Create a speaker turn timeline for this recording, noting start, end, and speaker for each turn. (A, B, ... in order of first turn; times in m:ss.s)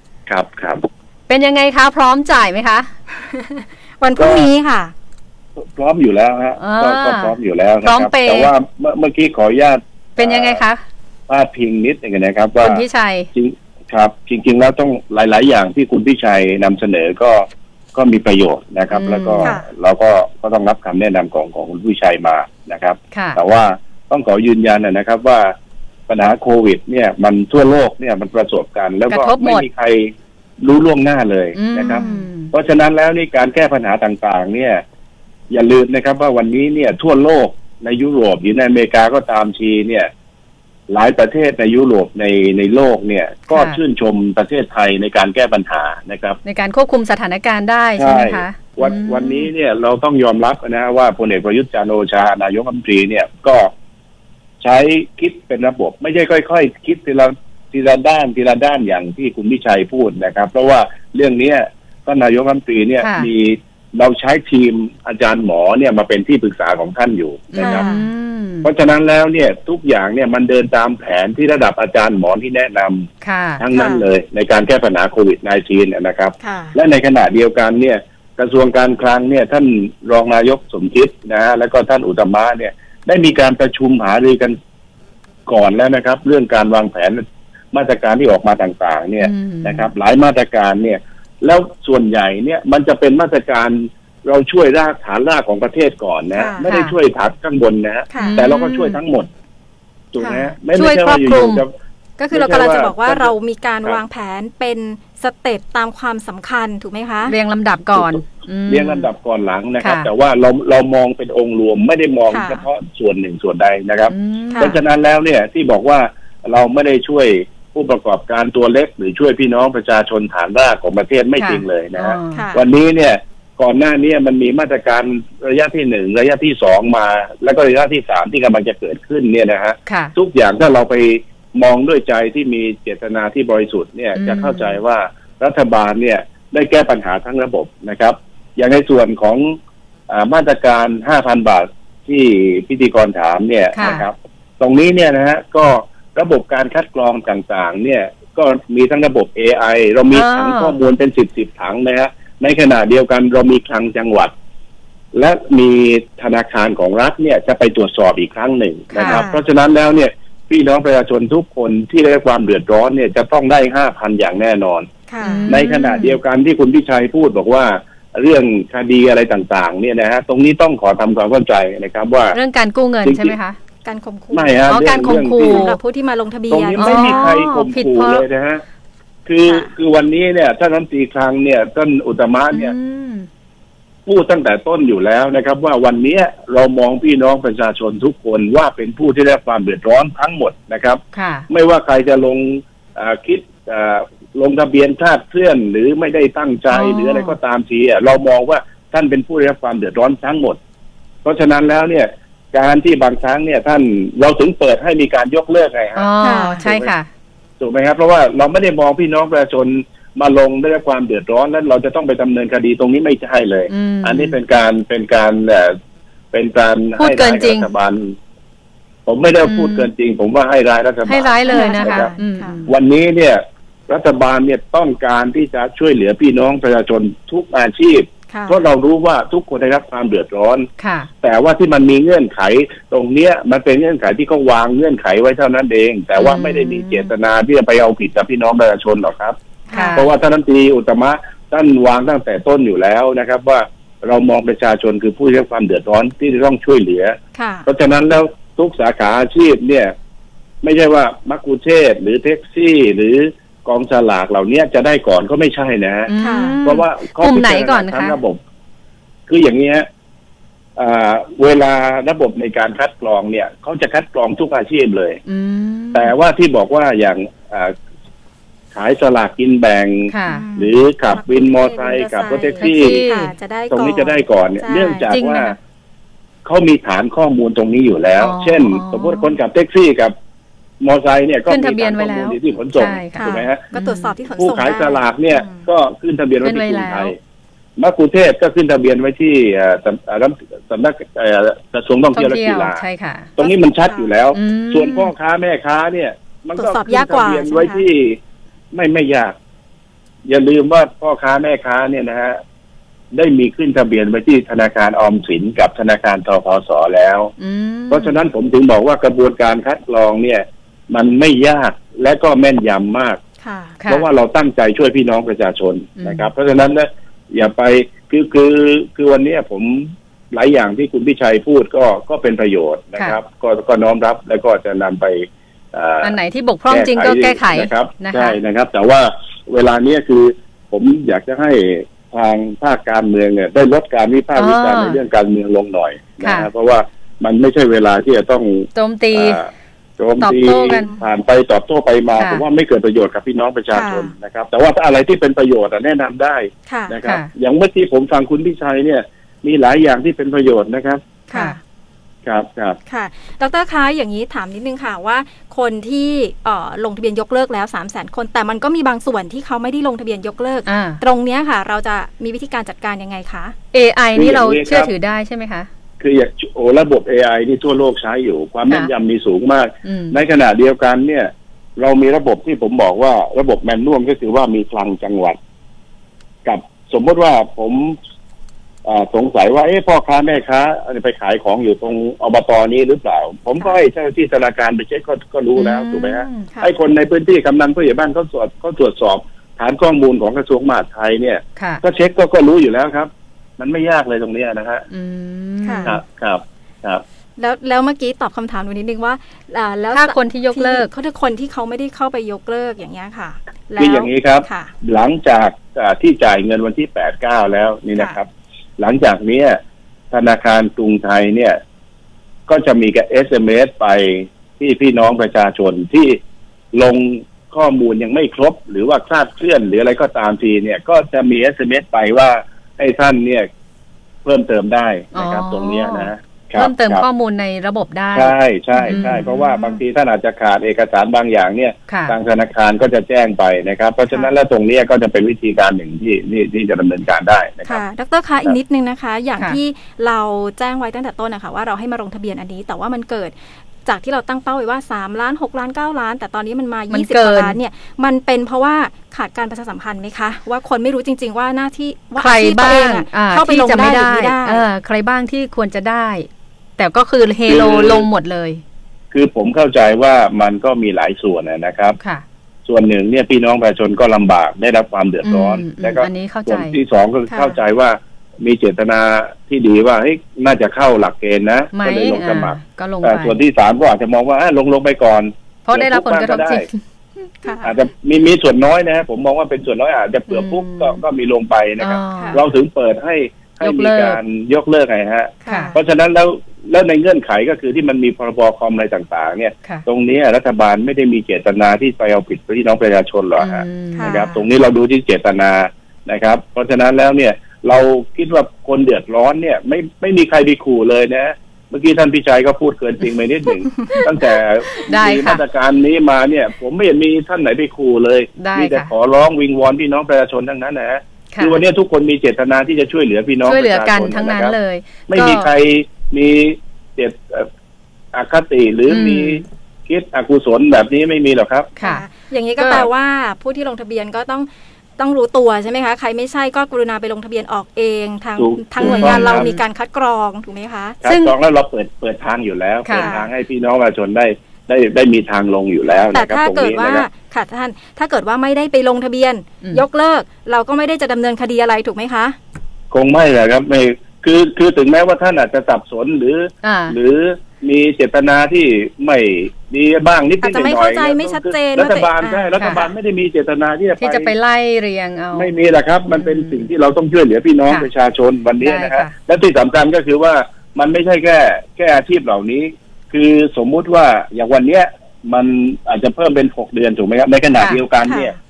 0:00.3-0:00.8 A
0:01.3-0:02.9 B
0:03.2-0:04.9 C
0:04.2-0:04.5 A
0:05.6-0:10.6 A
0:06.6-0:08.5 B
0:10.2-0:10.8 B
0:11.3-0:25.5 A
0:12.6-0:13.3 B
0:18.9-0:19.5 B
0:19.4-0:19.7 C
0:23.1-0:23.4 B
0:26.1-0:34.8 A
0:29.1-0:29.6 B
0:31.5-0:32.5 B
0:31.8-0:32.3 C
0:35.5-0:40.1 A
0:40.9-0:46.4 A
0:43.5-0:43.8 B
0:46.4-0:49.5 B
0:48.0-0:53.7 A
0:54.6-1:07.8 A
1:03.0-1:03.3 B
1:07.5-1:08.7 B
1:07.6-1:08.1 C
1:08.6-1:24.6 A
1:13.2-1:13.6 B
1:13.7-1:14.0 C
1:16.4-1:16.8 C
1:25.5-1:39.3 A
1:29.2-1:29.9 B
1:36.3-1:36.6 C
1:36.6-1:36.9 B
1:38.1-1:38.4 C
1:38.2-1:39.0 B
1:40.1-1:41.7 A
1:40.2-1:40.5 C
1:40.7-1:41.6 B
1:42.2-1:47.3 C
1:42.3-1:43.3 A
1:47.2-1:49.1 B
1:47.9-2:19.5 A
1:49.8-1:50.1 B
1:52.3-1:52.6 C
1:54.1-1:54.8 B
1:54.5-1:54.8 C
2:01.4-2:02.4 B
2:02.3-2:02.6 C
2:09.9-2:10.1 B
2:14.1-2:14.8 B
2:20.1-2:34.3 A
2:23.7-2:24.0 B
2:30.1-2:30.8 B
2:35.1-2:44.9 A
2:38.9-2:39.2 B
2:39.0-2:39.4 C
2:45.1-2:45.5 C
2:45.2-2:46.2 B
2:45.5-2:52.4 A
2:52.3-2:53.6 B
2:53.0-2:53.4 A
2:53.8-2:54.6 C
2:54.3-2:55.7 A
2:54.7-2:55.8 B
2:55.4-2:57.4 C
2:56.5-2:58.6 A
2:56.8-2:58.2 B
2:59.3-3:02.7 A
2:59.4-2:59.7 C
3:02.5-3:03.3 B
3:04.0-3:20.6 A
3:11.1-3:11.5 B
3:16.7-3:17.4 B
3:21.2-3:26.9 A
3:26.0-3:27.1 B
3:26.2-3:26.6 C
3:27.6-3:35.8 A
3:33.7-3:34.4 B
3:36.3-3:38.2 A
3:37.0-3:37.7 B
3:39.0-3:42.1 A
3:39.4-3:39.9 B
3:41.0-3:42.7 B
3:41.4-3:42.6 C
3:42.7-3:50.7 A
3:48.3-3:48.6 C
3:50.8-3:51.1 B
3:51.2-3:59.4 A
3:56.2-3:57.1 B
3:59.7-4:00.0 C
3:59.7-4:00.0 B
3:59.9-4:09.9 A
4:07.3-4:07.7 C
4:10.6-4:16.1 A
4:16.1-4:18.2 B
4:16.2-4:16.6 C
4:16.6-4:18.4 A
4:19.3-4:19.8 A
4:20.8-4:25.2 A
4:25.3-4:26.1 B
4:25.9-4:27.7 A
4:28.7-4:33.0 A
4:30.1-4:30.5 B
4:30.2-4:35.1 C
4:32.6-4:33.3 B
4:33.7-4:35.6 A
4:35.1-4:35.6 B
4:36.4-4:40.1 A
4:38.2-4:39.3 B
4:40.8-4:43.6 A
4:41.5-4:44.1 B
4:43.1-4:45.6 C
4:44.4-4:47.2 A
4:46.4-4:47.1 B
4:47.8-4:52.8 A
4:52.1-4:53.3 B
4:53.4-4:58.2 A
4:53.4-4:54.1 C
4:54.3-4:55.1 B
4:56.6-4:57.8 C
4:58.7-4:59.3 A
5:00.3-5:02.4 A
5:03.1-5:07.3 A
5:07.4-5:08.2 B
5:07.9-5:13.2 A
5:13.4-5:13.8 C
5:13.9-5:26.1 A
5:16.0-5:16.3 B
5:26.0-5:28.4 B
5:26.7-5:51.0 A
5:34.3-5:35.0 B
5:36.2-5:36.5 B
5:38.7-5:39.4 B
5:40.2-5:40.9 B
5:42.2-5:42.4 B
5:43.7-5:44.1 C
5:46.7-5:47.0 C
5:47.0-5:47.3 B
5:51.3-5:51.6 C
5:52.2-5:52.8 A
5:52.9-6:03.5 C
6:00.6-6:01.0 B
6:03.7-6:05.7 B
6:04.1-6:04.9 A
6:06.0-6:15.4 A
6:09.8-6:10.2 B
6:16.4-6:18.0 A
6:18.8-6:34.8 A
6:25.6-6:26.5 B
6:31.6-6:31.8 B
6:34.9-6:36.0 B
6:35.6-6:35.9 C
6:35.8-6:37.0 A
6:37.4-6:44.7 C
6:39.9-6:40.9 B
6:43.8-6:48.3 A
6:48.8-6:49.6 A
6:50.1-6:51.6 A
6:52.5-6:56.2 A
6:56.7-7:03.5 A
7:04.2-7:07.0 A
7:05.1-7:08.3 B
7:08.1-7:17.8 A
7:08.7-7:09.8 C
7:08.9-7:09.4 B
7:11.9-7:12.1 B
7:17.6-7:34.6 C
7:26.9-7:27.6 B
7:32.2-7:36.3 B
7:36.8-7:38.6 B
7:37.4-7:38.1 A
7:39.1-7:42.0 A
7:42.6-7:56.6 A
7:45.2-7:46.8 B
7:47.3-7:47.6 C
7:51.7-7:53.4 B
7:55.7-7:56.7 B
7:57.6-8:34.5 A
8:00.3-8:01.0 B
8:01.8-8:02.4 B
8:02.2-8:02.4 C
8:03.6-8:04.2 B
8:05.4-8:05.8 C
8:05.5-8:05.7 B
8:13.4-8:14.2 B
8:13.9-8:14.4 C
8:24.8-8:25.4 B
8:28.4-8:28.9 B
8:31.3-8:31.6 B
8:33.4-8:35.5 B
8:35.1-8:37.5 A
8:38.1-8:41.7 A
8:38.9-8:39.4 B
8:41.8-8:51.0 C
8:42.6-8:42.9 B
8:48.4-8:49.5 A
8:48.8-8:49.6 B
8:51.0-8:57.1 A
8:51.0-8:51.3 B
8:52.8-8:53.1 B
8:53.0-8:53.3 C
8:55.9-9:02.4 C
9:02.9-9:14.3 A
9:06.6-9:07.0 B
9:10.4-9:12.9 C
9:14.0-9:15.5 B
9:15.3-9:28.3 A
9:16.1-9:16.6 B
9:18.6-9:19.1 B
9:27.5-9:27.8 B
9:28.0-9:28.4 C